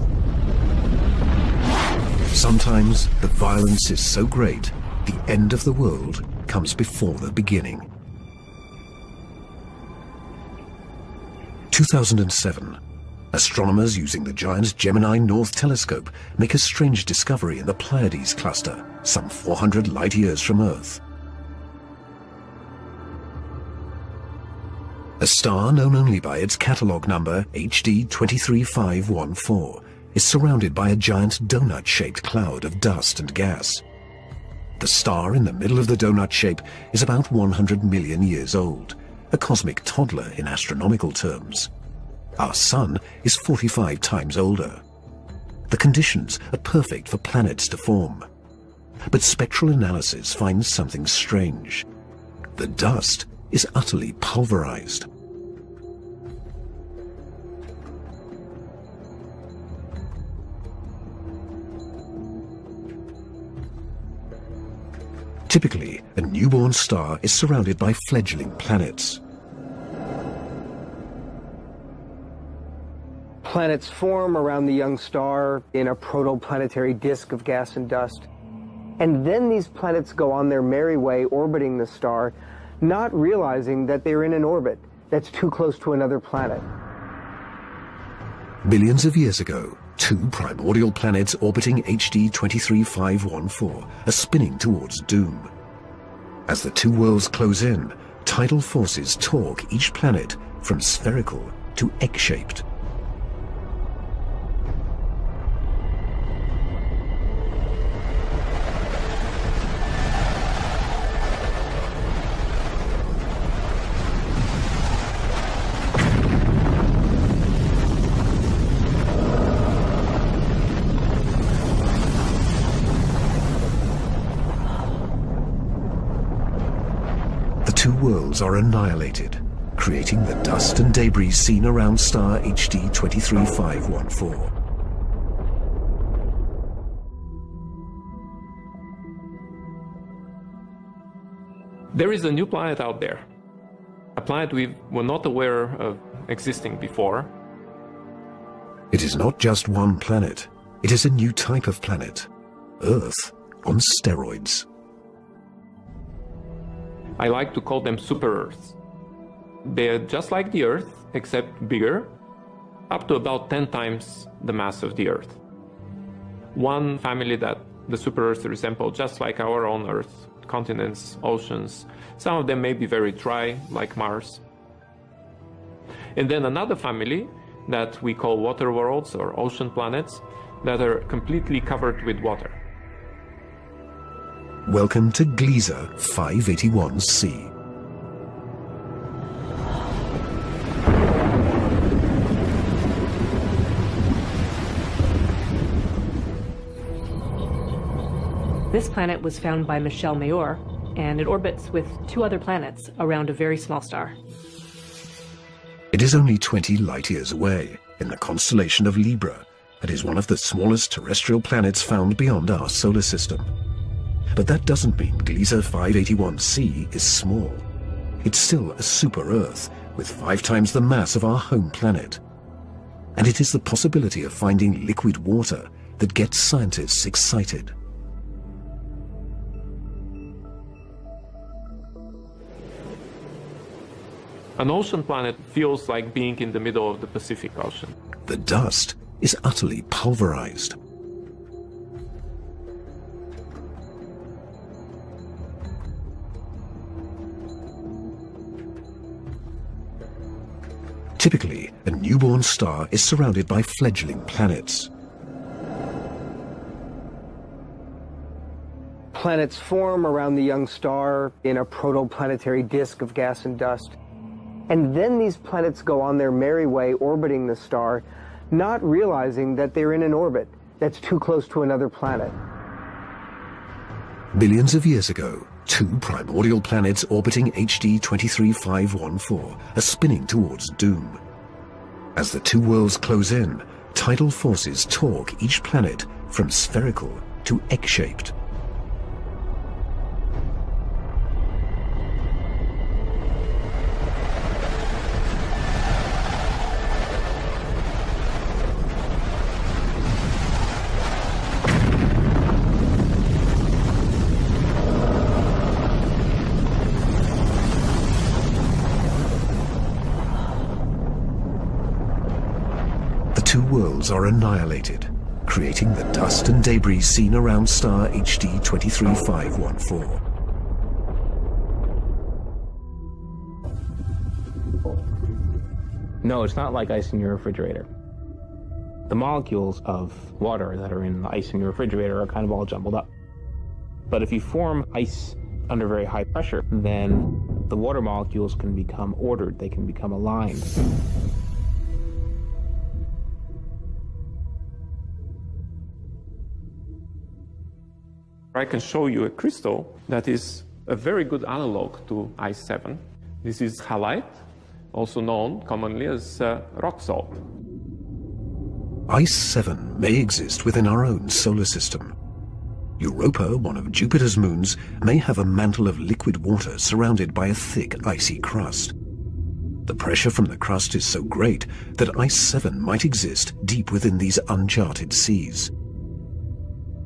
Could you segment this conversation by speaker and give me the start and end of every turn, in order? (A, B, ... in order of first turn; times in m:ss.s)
0:02.3-0:07.9 A
0:11.7-0:12.8 A
0:13.3-0:21.0 A
0:25.2-0:33.8 A
0:34.8-0:41.7 A
0:42.4-0:44.8 A
0:45.7-0:48.3 A
0:49.1-0:51.9 A
0:52.6-0:55.1 A
1:05.5-1:09.2 A
1:13.4-1:18.3 B
1:19.0-1:26.7 B
1:28.6-1:35.5 A
1:36.5-1:42.6 A
2:07.6-2:14.5 A
2:21.9-2:23.2 C
2:24.2-2:27.3 C
2:28.9-2:32.3 A
2:32.8-2:34.7 A
2:37.2-2:38.8 C
2:39.6-2:42.1 C
2:42.9-2:45.4 C
2:46.5-2:54.4 C
2:56.2-3:02.6 C
3:04.7-3:07.5 A
3:18.7-3:24.2 D
3:25.9-3:33.5 A
3:34.4-3:37.6 A
3:38.2-3:42.2 A
3:43.2-3:47.8 A
3:54.6-3:57.9 C
3:58.3-4:00.8 A
4:11.2-4:14.9 A
4:19.1-4:24.0 B
4:24.7-4:32.4 B
4:34.3-4:41.2 A
4:42.2-4:48.4 A
5:13.3-5:20.2 A
5:26.2-5:27.9 E
5:29.1-5:33.1 E
5:34.1-5:40.7 E
5:48.5-5:54.4 C
5:54.9-5:57.4 C
5:59.1-6:02.2 A
6:03.0-6:09.0 A
6:09.9-6:15.7 A